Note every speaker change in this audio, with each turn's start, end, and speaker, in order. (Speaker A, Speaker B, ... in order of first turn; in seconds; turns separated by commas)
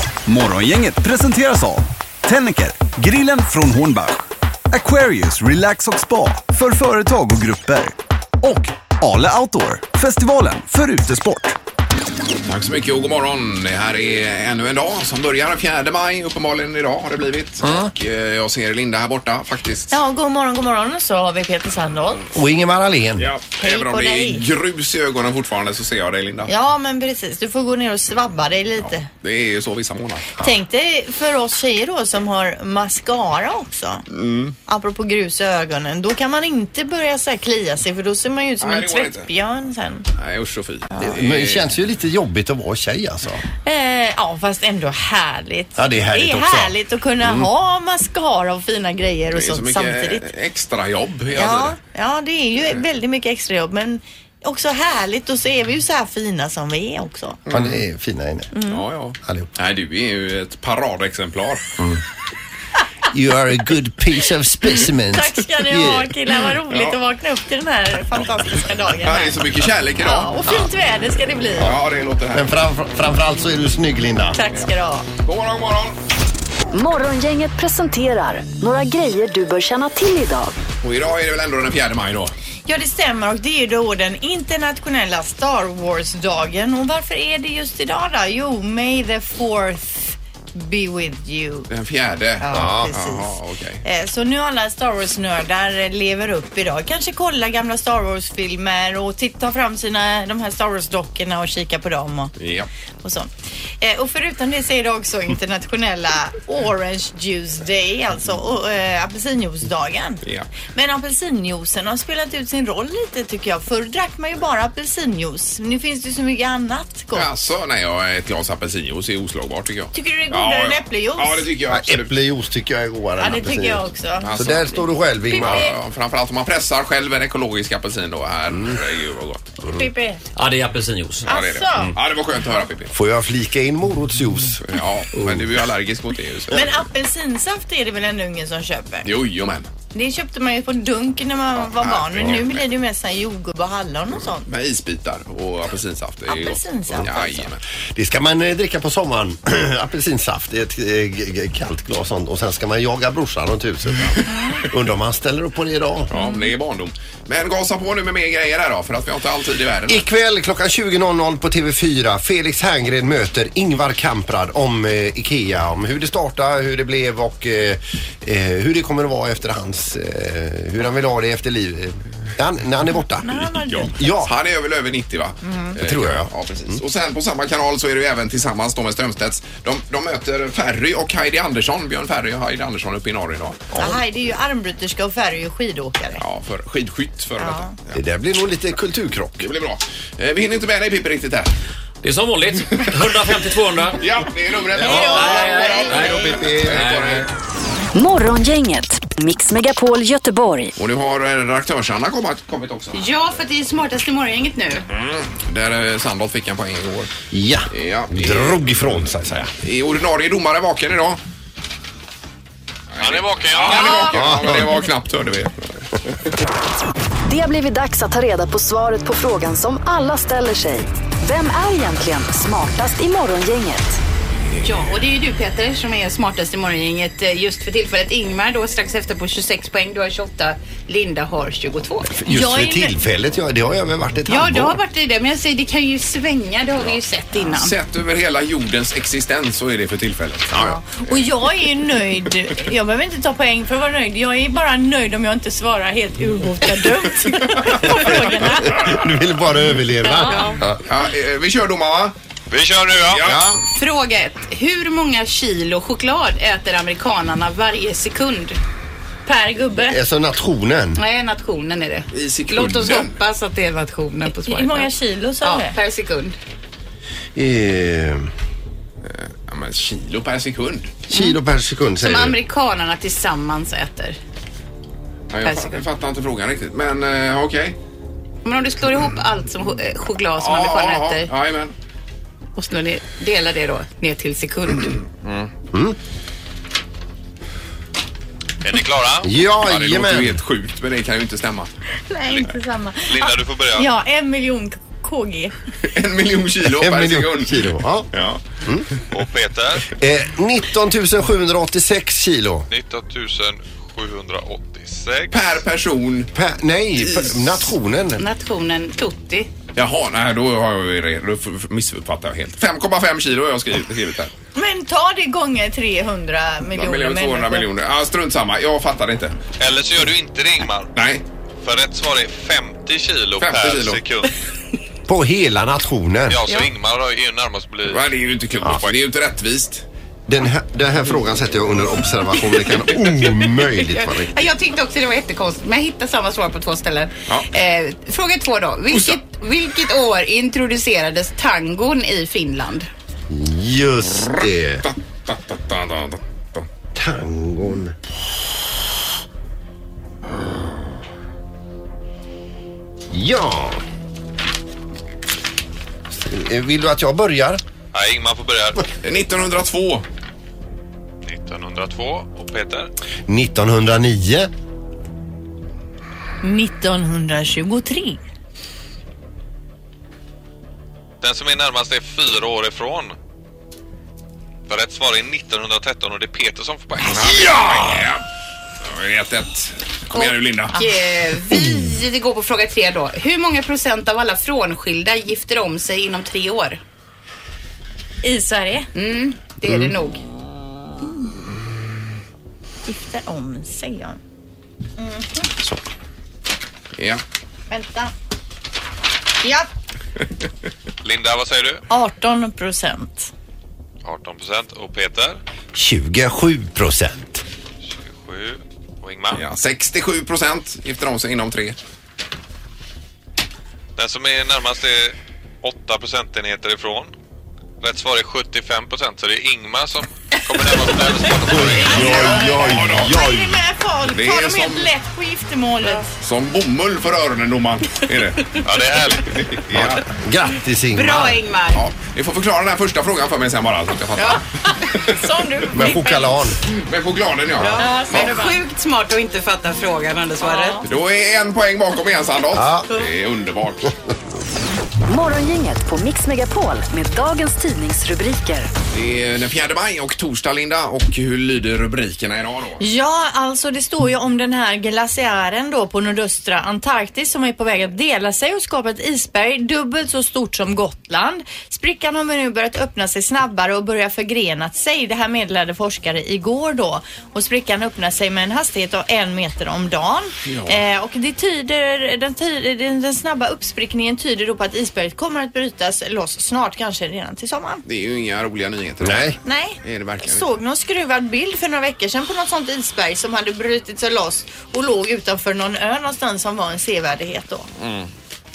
Speaker A: 0.2-11.5, Speaker B: 12.4-19.9, Speaker C: 17.6-17.9, Speaker D: 19.9-22.2, Speaker C: 22.3-23.3, Speaker B: 23.2-26.5, Speaker D: 23.6-24.4, Speaker D: 26.5-29.1, Speaker B: 28.8-30.3, Speaker D: 30.4-34.0, Speaker B: 34.1-34.5, Speaker D: 34.7-40.1, Speaker B: 38.6-39.3, Speaker B: 40.1-41.7, Speaker C: 41.0-43.4, Speaker D: 43.6-50.2, Speaker C: 45.8-47.5, Speaker B: 49.3-51.8, Speaker D: 51.3-57.4, Speaker B: 57.5-57.8, Speaker C: 57.5-58.5, Speaker D: 58.5-58.8, Speaker B: 58.7-61.8, Speaker C: 59.2-59.5, Speaker C: 63.1-66.1, Speaker D: 64.7-69.5, Speaker B: 66.7-66.9, Speaker B: 69.0-70.3, Speaker D: 70.0-71.7, Speaker B: 71.6-72.5, Speaker C: 72.3-74.4, Speaker D: 74.3-75.1, Speaker B: 75.2-76.0, Speaker E: 76.7-80.6, Speaker B: 80.8-82.3, Speaker D: 82.7-91.7, Speaker B: 91.7-93.8, Speaker D: 92.4-93.3, Speaker C: 92.5-92.9, Speaker D: 93.8-102.3, Speaker B: 102.4-102.7, Speaker D: 103.0-103.3, Speaker D: 103.8-110.2, Speaker B: 110.2-110.5, Speaker D: 110.7-117.3, Speaker B: 117.1-122.1, Speaker D: 119.9-121.5, Speaker C: 121.7-125.7, Speaker D: 123.2-125.7, Speaker B: 124.2-129.6, Speaker D: 129.7-130.2, Speaker F: 130.3-131.2, Speaker B: 131.2-132.9, Speaker D: 131.2-131.9, Speaker C: 132.9-135.4, Speaker B: 134.7-136.6, Speaker D: 136.5-139.1, Speaker B: 139.0-139.7, Speaker D: 139.9-144.5, Speaker B: 141.6-142.6, Speaker B: 144.4-147.6, Speaker D: 146.3-147.5, Speaker C: 147.9-156.1, Speaker D: 154.3-154.6, Speaker B: 156.1-160.0, Speaker D: 156.1-156.5, Speaker C: 159.9-174.3, Speaker D: 173.2-174.1, Speaker B: 173.7-183.7, Speaker D: 175.4-175.8, Speaker C: 175.8-176.8, Speaker C: 183.7-184.0, Speaker D: 183.8-186.2, Speaker B: 186.2-188.0, Speaker D: 187.4-187.7, Speaker C: 187.9-189.5, Speaker B: 189.4-191.5, Speaker F: 192.0-194.0, Speaker B: 194.0-197.3, Speaker D: 194.8-196.1, Speaker F: 194.8-197.2, Speaker G: 195.5-195.8, Speaker C: 196.2-196.8, Speaker E: 197.9-200.8, Speaker B: 200.8-203.1, Speaker G: 202.9-204.8, Speaker B: 204.9-207.1, Speaker C: 207.3-209.5, Speaker B: 207.7-209.0, Speaker B: 209.6-211.2, Speaker B: 212.9-215.8, Speaker H: 213.0-214.0, Speaker G: 213.7-214.1, Speaker C: 214.1-214.7, Speaker E: 217.2-224.0, Speaker G: 224.6-232.1, Speaker C: 232.1-234.8, Speaker D: 232.3-232.9, Speaker G: 234.2-237.8, Speaker B: 236.8-240.8, Speaker D: 240.6-248.9, Speaker B: 247.7-248.0, Speaker C: 248.6-250.8, Speaker D: 250.0-250.6, Speaker G: 250.2-250.6, Speaker B: 250.8-252.1, Speaker H: 252.5-253.3, Speaker B: 253.1-253.5, Speaker C: 253.2-253.6, Speaker G: 253.7-258.6, Speaker D: 259.2-260.0, Speaker C: 259.8-261.0, Speaker G: 260.9-266.3, Speaker B: 262.1-263.2, Speaker D: 264.4-265.8, Speaker C: 267.3-268.3, Speaker B: 269.1-270.9, Speaker C: 271.1-272.4, Speaker G: 272.0-274.2, Speaker B: 275.3-277.8, Speaker G: 275.4-275.8, Speaker G: 278.4-281.3, Speaker B: 280.4-281.7, Speaker G: 282.6-285.0, Speaker B: 285.2-285.5, Speaker H: 288.6-289.3, Speaker C: 289.2-290.4, Speaker B: 289.6-291.7, Speaker D: 292.1-295.5, Speaker H: 293.1-293.9, Speaker B: 295.8-298.4, Speaker C: 296.6-298.1, Speaker H: 299.1-299.9, Speaker C: 299.9-302.7, Speaker H: 302.7-305.3, Speaker B: 305.3-306.3, Speaker C: 306.3-308.2, Speaker B: 307.0-307.6, Speaker G: 308.2-309.5, Speaker B: 309.7-314.3, Speaker D: 314.5-317.6, Speaker B: 316.7-319.4, Speaker H: 319.6-320.9, Speaker B: 320.9-321.2, Speaker H: 321.6-324.3, Speaker B: 323.4-324.0, Speaker C: 325.1-326.4, Speaker H: 326.3-328.1, Speaker B: 327.9-329.8, Speaker C: 330.3-334.3, Speaker G: 333.7-342.9, Speaker B: 338.9-339.2, Speaker C: 343.3-344.9, Speaker B: 344.2-346.6, Speaker C: 346.9-347.9, Speaker C: 353.1-353.8, Speaker C: 356.1-357.6, Speaker H: 357.9-358.9, Speaker B: 359.0-360.0, Speaker H: 361.2-362.9, Speaker C: 363.3-364.5, Speaker D: 366.4-368.2, Speaker H: 371.2-373.1, Speaker H: 374.7-378.0, Speaker B: 377.0-378.2, Speaker B: 378.8-380.8, Speaker G: 380.1-386.8, Speaker D: 388.2-388.9, Speaker G: 388.9-390.2, Speaker D: 392.9-394.2, Speaker D: 395.0-395.5, Speaker B: 397.0-397.2, Speaker D: 397.7-398.1, Speaker D: 399.4-399.7, Speaker H: 401.0-401.8, Speaker D: 401.9-403.3, Speaker H: 404.0-405.4, Speaker C: 405.7-407.4, Speaker H: 407.8-409.4, Speaker B: 409.3-411.8, Speaker H: 413.9-417.1, Speaker H: 417.8-421.9, Speaker C: 421.4-423.6, Speaker D: 421.5-426.1, Speaker B: 422.0-423.2, Speaker B: 424.1-424.9, Speaker B: 426.2-428.5, Speaker H: 428.6-429.4, Speaker B: 429.3-430.1, Speaker C: 429.7-431.4, Speaker G: 430.9-431.8, Speaker B: 431.7-434.4, Speaker D: 434.9-436.4, Speaker C: 435.7-436.6, Speaker B: 436.7-438.4, Speaker G: 437.5-440.8, Speaker D: 437.8-438.6, Speaker D: 440.4-440.9, Speaker B: 440.8-443.9, Speaker C: 442.5-442.9, Speaker E: 445.1-448.7, Speaker B: 448.9-452.8, Speaker D: 452.8-477.8, Speaker B: 470.4-470.8, Speaker B: 477.9-480.5, Speaker C: 479.0-479.4, Speaker D: 479.4-487.7, Speaker B: 487.8-488.1